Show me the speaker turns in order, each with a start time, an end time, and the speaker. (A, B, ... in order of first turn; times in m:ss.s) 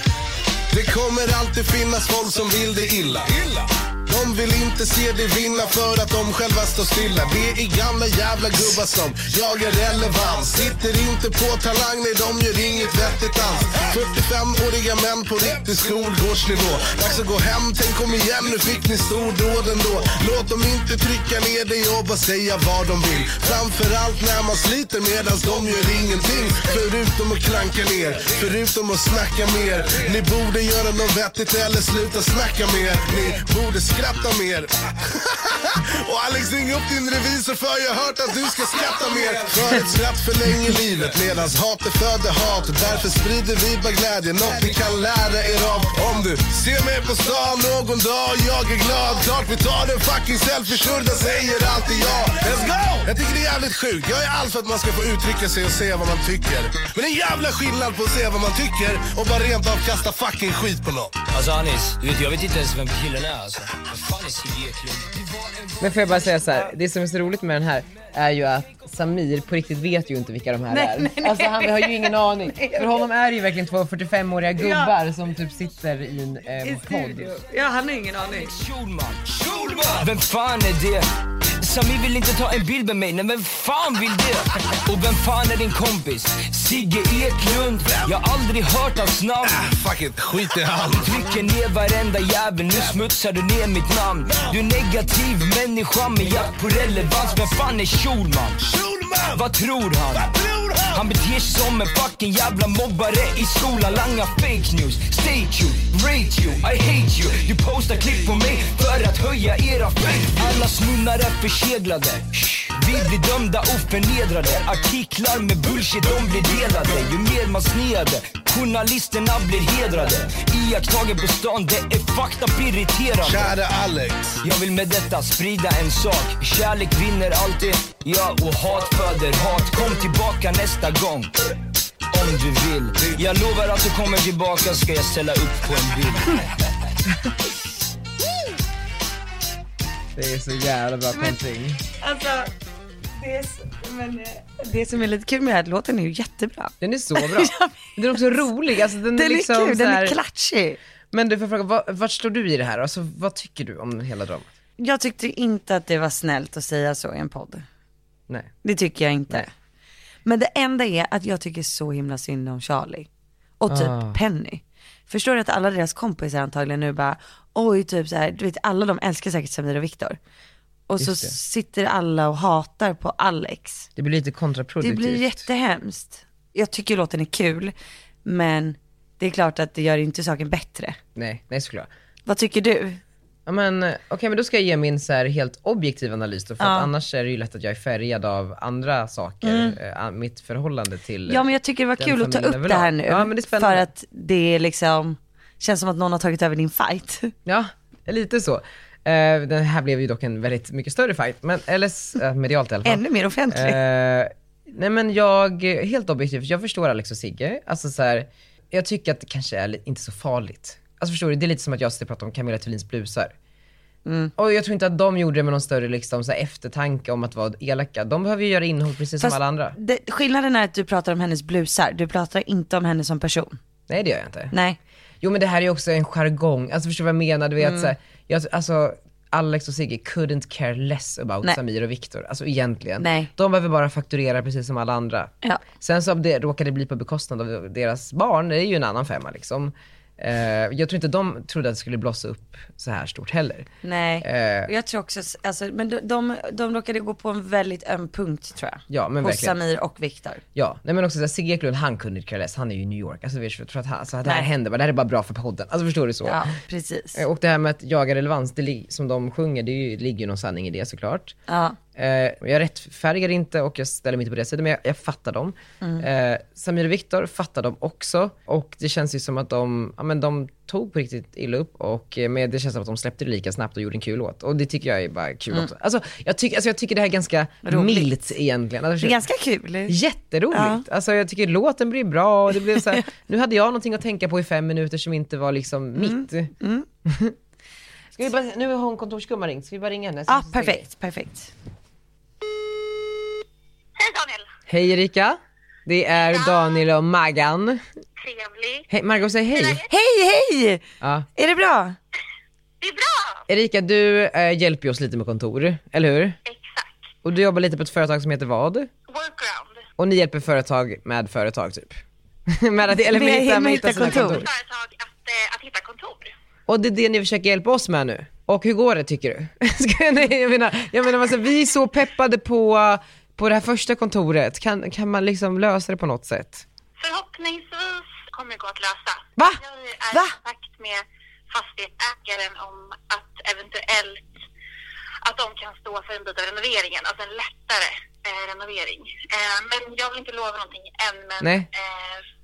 0:00.7-1:01.2 A
1:01.3-1:06.5 B
1:05.8-1:17.4 C
1:10.7-1:13.0 D
1:14.6-1:14.9 D
1:16.6-1:18.5 D
1:18.2-1:21.0 B
1:21.6-1:29.6 B
1:27.9-1:28.1 A
1:29.4-1:31.3 A
1:31.0-1:38.6 B
1:34.3-1:34.6 A
1:38.6-1:39.5 A
1:39.3-1:40.3 B
1:40.1-1:41.0 A
1:40.9-2:03.5 B
2:03.2-2:04.4 A
2:04.4-2:11.3 B
2:12.1-2:16.4 B
2:20.1-2:21.8 C
2:22.0-2:22.5 D
2:23.2-2:28.5 D
2:26.8-2:30.2 C
2:29.1-2:30.8 D
2:31.1-2:34.5 C
2:34.8-2:37.6 D
2:38.6-2:39.5 D
2:40.2-2:43.1 D
2:43.6-2:50.2 D
2:43.7-2:44.2 C
2:50.9-2:53.9 D
2:51.0-2:51.3 C
2:54.0-2:55.4 C
2:54.8-2:57.7 D
2:58.2-3:01.0 D
3:01.2-3:01.9 C
3:02.3-3:03.0 D
3:03.4-3:13.9 C
3:06.6-3:06.9 D
3:09.4-3:09.8 D
3:11.3-3:17.3 D
3:17.4-3:33.3 C
3:22.8-3:23.8 D
3:34.0-3:34.3 D
3:34.4-3:39.8 C
3:39.2-3:43.6 D
3:43.9-3:44.5 C
3:44.5-3:44.8 D
3:45.2-4:03.7 C
3:47.6-3:47.9 D
3:53.0-3:53.3 D
4:03.8-4:10.4 D
4:04.2-4:04.7 C
4:08.9-4:09.6 C
4:10.5-4:16.4 C
4:16.2-4:17.2 D
4:17.1-4:21.4 C
4:21.5-4:21.8 D
4:21.9-4:39.2 C
4:37.6-4:38.1 D
4:39.0-4:40.0 D
4:39.9-4:46.5 C
4:40.5-4:40.8 D
4:46.0-4:46.9 D
4:47.0-4:47.3 C
4:48.1-4:50.8 C
4:50.3-4:51.5 D
4:54.0-4:54.5 E
4:54.7-4:57.8 C
4:56.2-4:56.8 E
4:58.2-4:58.9 E
4:58.9-4:59.8 C
4:59.5-4:59.8 E
4:59.9-5:00.8 D
5:01.0-5:01.2 C
5:01.4-5:02.0 D
5:02.8-5:03.4 E
5:03.5-5:06.4 C
5:06.4-5:07.1 E
5:07.2-5:08.9 C
5:09.1-5:09.8 E
5:10.0-5:14.5 C
5:13.0-5:14.4 D
5:14.2-5:16.3 E
5:16.7-5:26.6 C
5:27.0-5:34.3 E
5:35.2-5:42.2 E
5:41.4-5:41.7 C